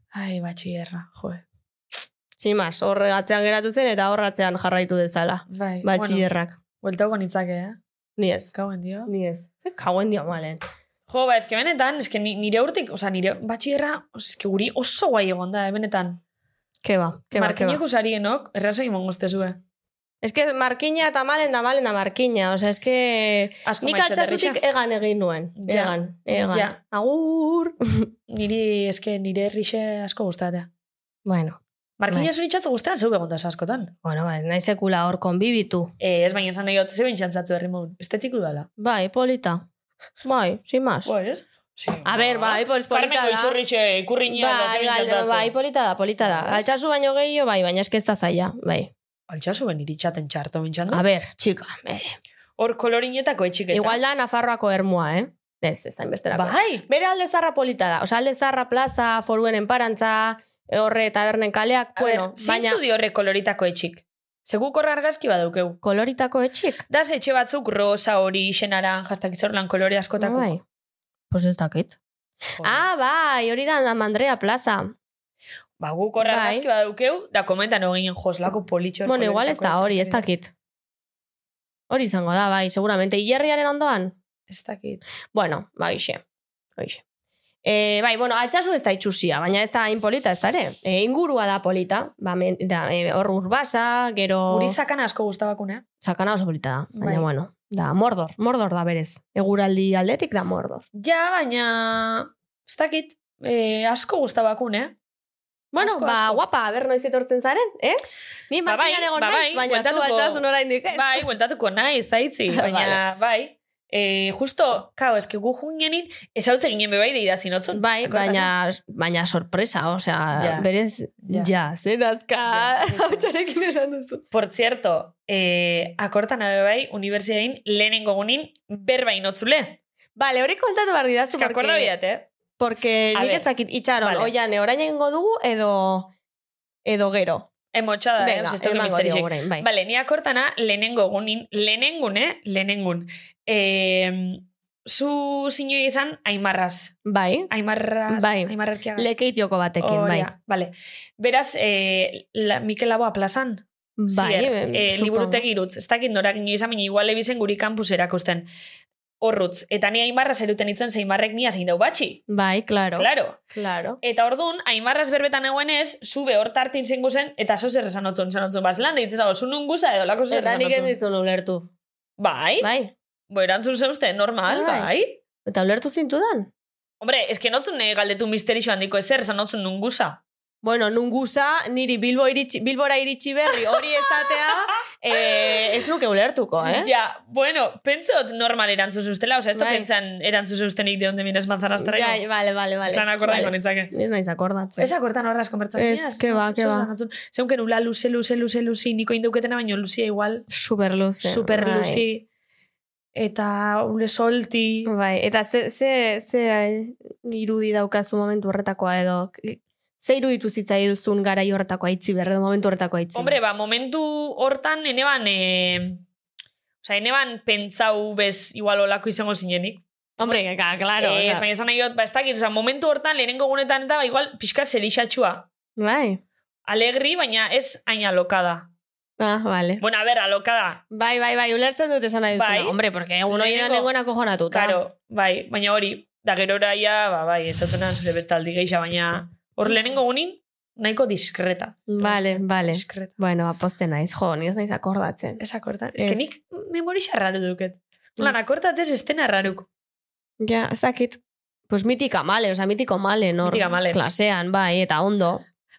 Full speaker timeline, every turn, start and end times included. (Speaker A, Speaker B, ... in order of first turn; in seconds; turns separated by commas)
Speaker A: 0.1-1.4, Speaker B: 2.4-6.6, Speaker A: 5.5-6.3, Speaker A: 6.8-7.8, Speaker B: 8.2-8.5, Speaker A: 8.5-9.1, Speaker B: 9.1-10.6, Speaker A: 11.1-16.2, Speaker B: 16.8-17.8, Speaker A: 17.4-19.6, Speaker B: 20.2-28.1, Speaker A: 23.6-24.6, Speaker A: 25.6-26.8, Speaker A: 28.3-30.7, Speaker B: 31.2-32.3, Speaker A: 32.0-33.9, Speaker B: 34.0-35.9, Speaker A: 36.0-38.7, Speaker B: 38.8-39.6, Speaker B: 40.2-41.1, Speaker A: 41.0-45.5, Speaker B: 42.0-43.6, Speaker B: 44.3-48.9, Speaker A: 46.2-46.7, Speaker A: 49.3-51.0, Speaker B: 50.9-52.2, Speaker A: 52.6-54.0, Speaker B: 53.7-62.8, Speaker A: 56.3-56.9, Speaker A: 62.0-65.8, Speaker B: 65.8-66.8, Speaker A: 66.9-70.5, Speaker B: 70.2-70.6, Speaker B: 71.3-72.0, Speaker A: 72.6-72.8, Speaker B: 72.6-75.0, Speaker A: 75.8-80.3, Speaker B: 76.2-76.7, Speaker B: 79.0-80.5, Speaker B: 81.9-84.2, Speaker A: 84.5-85.0, Speaker B: 85.3-86.2, Speaker B: 86.8-87.0, Speaker B: 87.6-94.8, Speaker A: 94.5-95.8, Speaker B: 96.0-100.8, Speaker A: 97.0-97.3, Speaker A: 100.9-105.0, Speaker B: 105.7-111.2, Speaker A: 105.8-106.4, Speaker A: 108.7-118.5, Speaker B: 112.5-113.0, Speaker B: 117.7-124.2, Speaker A: 120.3-120.7, Speaker A: 121.3-121.5, Speaker A: 122.5-123.3, Speaker A: 124.3-129.8, Speaker B: 130.2-131.9, Speaker A: 131.3-132.3, Speaker B: 132.6-136.1, Speaker A: 133.1-133.5, Speaker A: 134.0-134.3, Speaker B: 136.8-137.5, Speaker A: 137.7-147.0, Speaker B: 138.2-139.7, Speaker B: 147.1-147.5, Speaker A: 147.5-149.1, Speaker B: 148.1-150.3, Speaker A: 149.8-158.5, Speaker B: 154.0-155.4, Speaker A: 159.2-162.2, Speaker B: 162.3-164.0, Speaker A: 163.0-163.4, Speaker A: 164.0-170.9, Speaker B: 170.3-171.7, Speaker A: 172.2-172.7, Speaker B: 172.6-172.9, Speaker A: 173.3-175.2, Speaker B: 174.5-174.9, Speaker B: 175.5-176.5, Speaker A: 177.0-180.2, Speaker B: 180.6-186.9, Speaker A: 183.8-185.6, Speaker A: 186.6-192.2, Speaker B: 189.6-189.9, Speaker B: 191.8-194.9, Speaker A: 192.9-193.9, Speaker A: 194.8-200.5, Speaker B: 195.8-196.9, Speaker B: 200.5-202.0, Speaker A: 201.2-202.3, Speaker A: 203.1-204.9, Speaker B: 204.9-213.4, Speaker A: 213.1-216.0, Speaker A: 216.8-220.4, Speaker B: 220.2-221.5, Speaker A: 221.0-225.5, Speaker B: 225.8-226.2, Speaker A: 226.7-228.7, Speaker B: 229.2-229.8, Speaker A: 229.8-230.8, Speaker B: 230.9-234.8, Speaker A: 232.3-233.9, Speaker A: 234.5-243.1, Speaker B: 241.9-245.4, Speaker A: 245.4-249.7, Speaker B: 246.0-246.2, Speaker B: 250.4-255.4, Speaker A: 253.4-254.0